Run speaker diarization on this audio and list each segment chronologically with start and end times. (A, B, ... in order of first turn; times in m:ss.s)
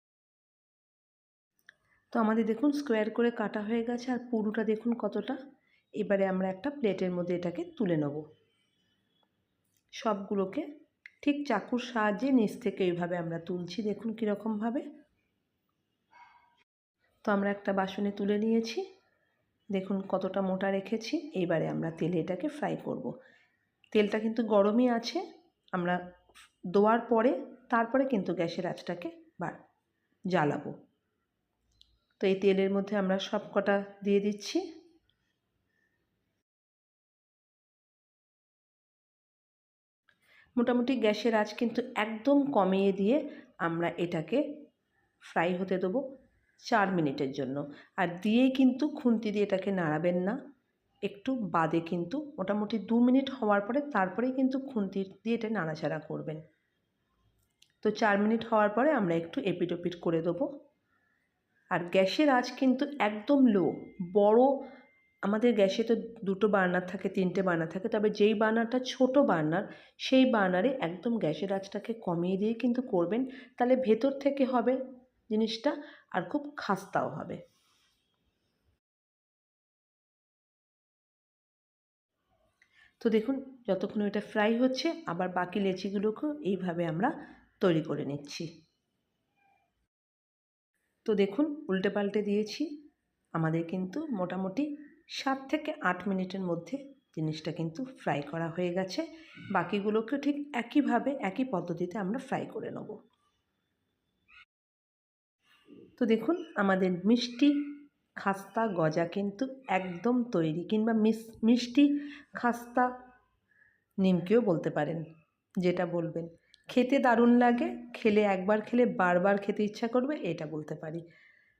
0:02.1-0:05.4 A
0:06.0-0:08.2 A
0:10.0-0:10.6 A
0:11.2-0:14.8 A
0:17.2-0:18.8 A
0:19.7-0:23.1 A
0:23.9-0:25.2 A
0:26.7-0:29.6 A
0:30.3-0:30.7 A
0:32.2-0:34.6 A
0:40.6-0:44.4 A
0:45.3-0:46.0 A
0:46.7-0:50.4 A
0:51.0-0:56.4 A
0:57.8-1:00.5 A
1:01.7-1:04.5 A
1:05.2-1:14.8 A
1:15.3-1:17.4 A
1:23.0-1:28.5 A
1:31.0-1:32.7 A
1:33.4-1:43.0 A
1:46.0-1:47.6 A
1:48.2-1:52.9 A
1:54.0-1:55.0 A
1:55.6-2:01.0 A